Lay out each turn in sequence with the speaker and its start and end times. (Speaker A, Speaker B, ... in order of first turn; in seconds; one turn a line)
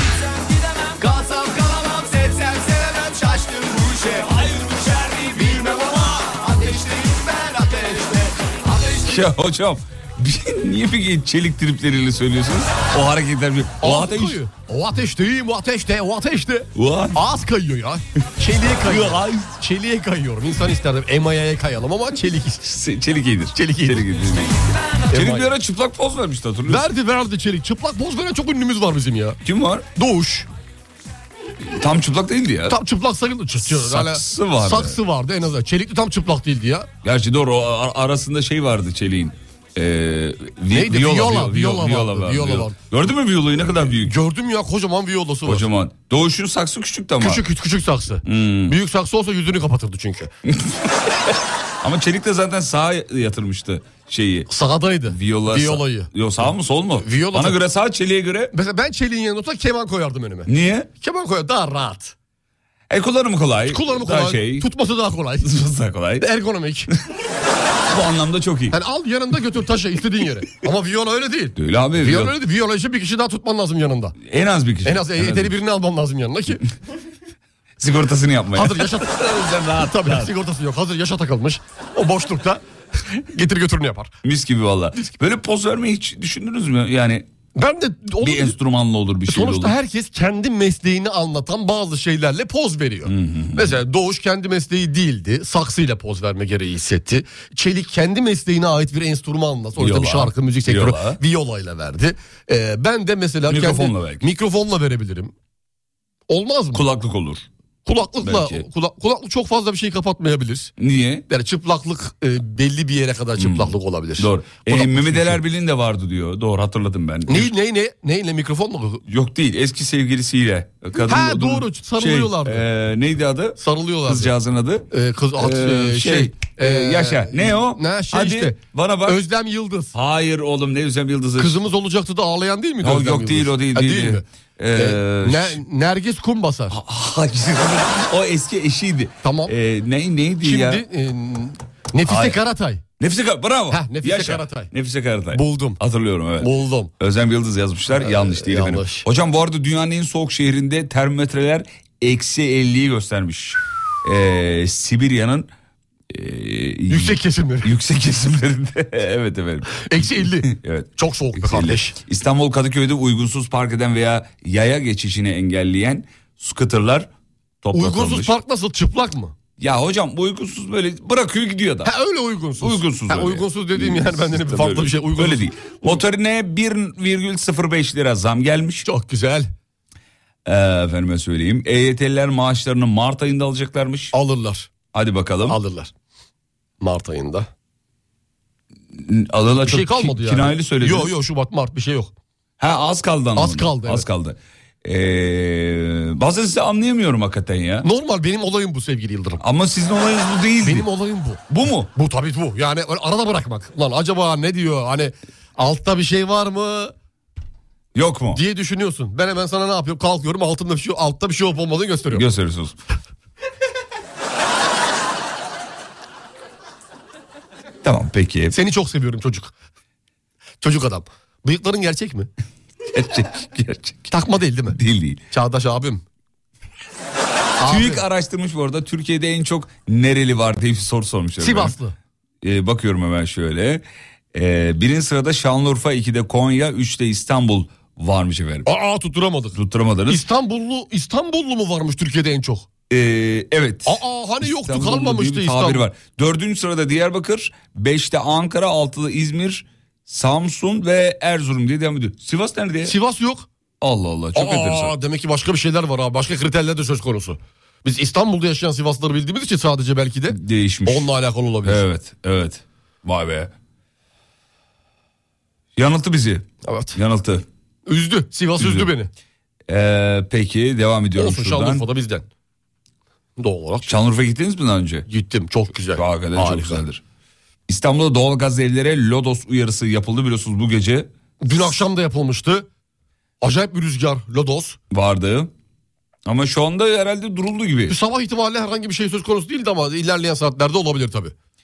Speaker A: 0.2-9.0
Speaker B: 9.1-14.4
Speaker C: 13.8-22.7
Speaker B: 16.8-17.2
Speaker B: 18.8-19.5
Speaker B: 22.6-24.6
Speaker C: 23.6-24.2
Speaker A: 24.7-25.1
Speaker C: 25.1-25.5
Speaker B: 25.1-26.9
Speaker C: 26.7-29.4
Speaker B: 29.4-29.9
Speaker C: 30.0-30.5
Speaker B: 31.7-32.8
Speaker C: 32.7-36.9
Speaker B: 33.6-35.0
Speaker B: 37.0-44.2
Speaker C: 40.7-42.8
Speaker C: 43.6-45.7
Speaker B: 45.5-47.4
Speaker C: 47.2-50.3
Speaker B: 48.2-48.8
Speaker B: 50.5-50.8
Speaker B: 51.8-54.5
Speaker C: 54.5-56.1
Speaker B: 55.1-58.5
Speaker C: 57.0-57.6
Speaker C: 58.5-62.1
Speaker B: 60.5-60.9
Speaker B: 62.9-64.7
Speaker C: 63.7-65.5
Speaker B: 65.4-66.3
Speaker C: 66.2-66.9
Speaker B: 67.9-68.8
Speaker C: 68.7-74.2
Speaker B: 71.6-72.3
Speaker B: 74.2-75.5
Speaker C: 74.8-76.6
Speaker B: 77.8-80.3
Speaker C: 78.6-82.6
Speaker C: 83.3-84.1
Speaker B: 84.2-87.3
Speaker C: 87.6-88.5
Speaker B: 88.2-89.8
Speaker C: 89.3-105.3
Speaker B: 93.1-93.8
Speaker B: 99.8-101.2
Speaker B: 103.5-104.2
Speaker C: 106.3-106.8
Speaker B: 106.7-107.5
Speaker C: 107.9-110.7
Speaker B: 108.2-108.7
Speaker B: 110.8-111.2
Speaker C: 111.3-115.4
Speaker B: 113.4-117.5
Speaker C: 117.3-119.0
Speaker B: 119.1-124.8
Speaker C: 121.0-122.6
Speaker C: 123.6-124.3
Speaker C: 124.9-129.9
Speaker B: 125.4-129.2
Speaker B: 129.9-131.6
Speaker C: 131.4-136.8
Speaker B: 132.8-135.6
Speaker B: 136.7-140.8
Speaker C: 139.2-139.5
Speaker C: 140.4-142.8
Speaker B: 142.1-142.4
Speaker B: 143.0-155.5
Speaker C: 143.7-144.7
Speaker C: 145.3-145.8
Speaker C: 146.4-146.9
Speaker C: 148.0-149.1
Speaker B: 156.1-167.1
Speaker C: 156.9-157.7
Speaker C: 159.8-161.9
Speaker B: 167.6-168.3
Speaker C: 167.7-169.3
Speaker B: 169.6-171.9
Speaker C: 171.8-176.0
Speaker B: 172.6-178.9
Speaker C: 178.8-179.5
Speaker B: 180.5-184.1
Speaker C: 184.1-184.7
Speaker B: 184.9-185.6
Speaker C: 185.5-185.9
Speaker C: 186.8-187.5
Speaker B: 189.0-191.1
Speaker C: 189.6-192.1
Speaker B: 192.6-197.9
Speaker C: 193.4-194.1
Speaker C: 197.8-199.4
Speaker B: 199.4-200.9
Speaker C: 200.6-201.4
Speaker B: 201.5-201.9
Speaker C: 201.9-206.9
Speaker B: 207.9-208.4
Speaker C: 208.3-212.3
Speaker B: 212.1-212.8
Speaker B: 217.8-218.6
Speaker C: 218.5-219.5
Speaker C: 220.6-222.3
Speaker B: 222.9-224.1
Speaker C: 224.1-224.8
Speaker B: 224.7-225.2
Speaker C: 225.3-226.0
Speaker C: 227.6-228.0
Speaker B: 227.7-231.8
Speaker C: 231.4-231.9
Speaker B: 232.4-233.8
Speaker B: 234.3-238.7
Speaker C: 238.7-239.6
Speaker B: 239.6-240.2
Speaker C: 240.1-242.7
Speaker B: 242.9-253.0
Speaker C: 243.9-245.8
Speaker C: 252.8-253.5
Speaker B: 253.8-254.9
Speaker C: 254.3-261.8
Speaker B: 260.3-261.1
Speaker B: 261.6-263.5
Speaker B: 265.8-267.4
Speaker C: 266.6-267.0
Speaker C: 267.9-269.1
Speaker B: 268.6-268.9
Speaker B: 269.7-271.9
Speaker C: 271.2-272.3
Speaker C: 273.4-273.9
Speaker B: 273.9-275.1
Speaker C: 275.1-276.9
Speaker B: 275.9-277.0
Speaker B: 277.7-281.1
Speaker C: 281.4-282.7
Speaker C: 283.4-284.8
Speaker B: 284.9-285.5
Speaker B: 286.3-288.0
Speaker C: 287.9-291.3